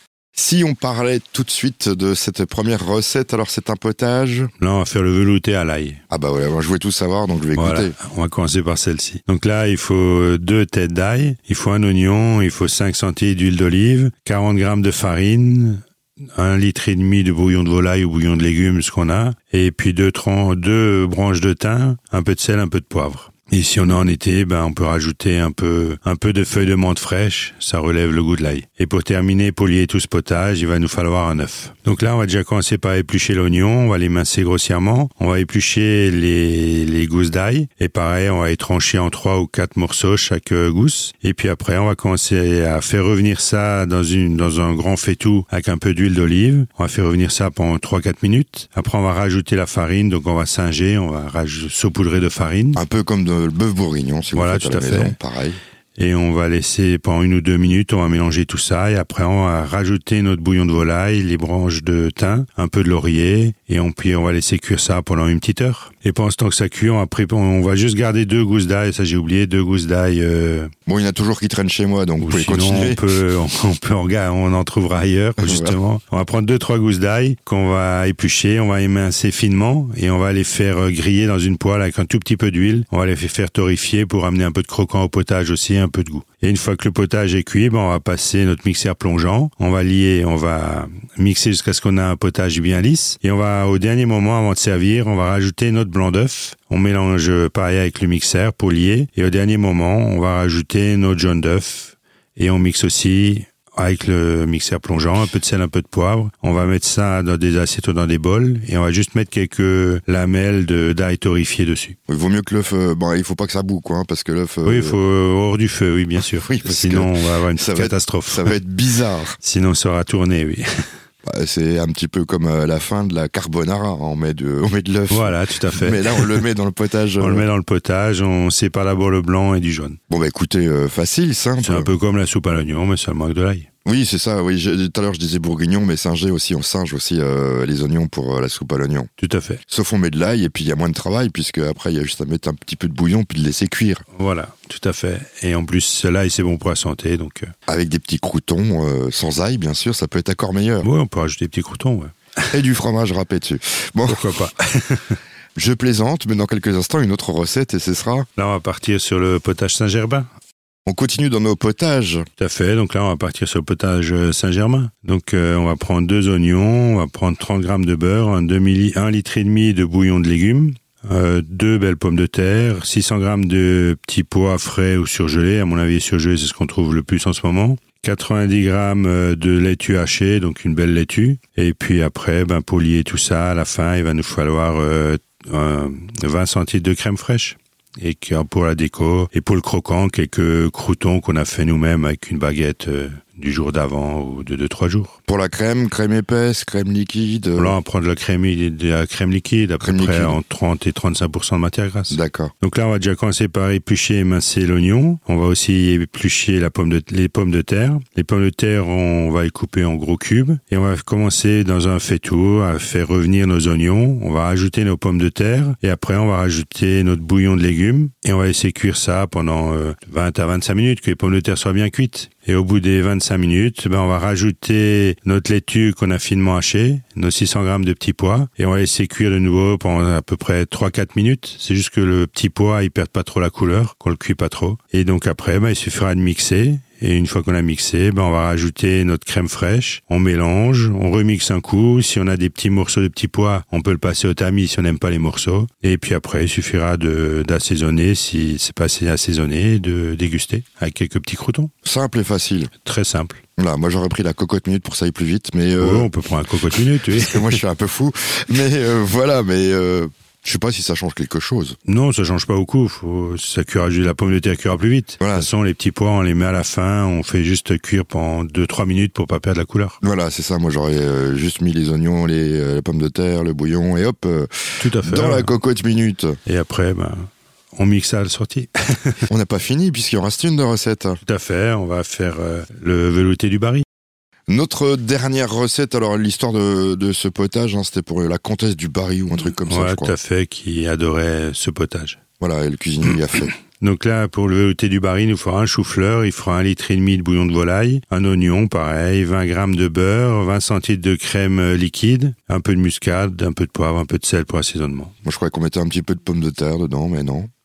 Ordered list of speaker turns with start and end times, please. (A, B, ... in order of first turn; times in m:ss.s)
0:00.4-0:04.5 A
0:04.6-0:06.0 B
0:06.1-0:08.0 A
0:07.6-0:15.8 B
0:16.4-0:52.8 B
0:52.8-0:55.6 A
0:54.3-0:55.2 B
0:56.0-1:10.7 B
1:10.9-1:13.0 A
1:12.2-1:52.0 B
1:15.4-1:15.8 A
1:52.1-1:55.0 A
1:54.6-1:58.6 B
1:56.4-1:59.4 A
1:59.4-2:00.6 B
2:01.3-2:07.5 A
2:05.1-2:06.4 B
2:07.2-2:10.0 B
2:10.1-2:11.9 A
2:11.6-2:13.7 B
2:13.8-2:19.1 A
2:19.2-2:19.6 B
2:19.7-2:24.0 A
2:24.2-2:27.5 B
2:27.7-2:30.9 A
2:30.8-2:32.5 B
2:32.5-2:34.3 A
2:34.1-2:35.2 B
2:35.6-2:38.3 A
2:38.4-2:40.3 B
2:40.9-2:42.3 A
2:42.4-3:15.2 B
3:15.3-3:17.8 A
3:17.6-4:11.7 B
3:19.8-3:20.4 A
3:22.1-3:22.5 A
4:11.8-4:12.7 A
4:12.8-4:13.4 B
4:13.6-4:16.1 A
4:15.8-4:17.6 B
4:16.8-4:21.8 A
4:21.8-4:30.0 B
4:25.2-4:25.5 A
4:30.0-4:36.4 A
4:34.8-4:35.5 B
4:36.5-4:39.3 B
4:39.3-4:41.2 A
4:41.2-4:43.8 B
4:44.5-4:50.2 A
4:49.6-4:52.2 B
4:52.4-4:53.5 A
4:53.8-5:05.2 B
5:05.2-5:07.5 A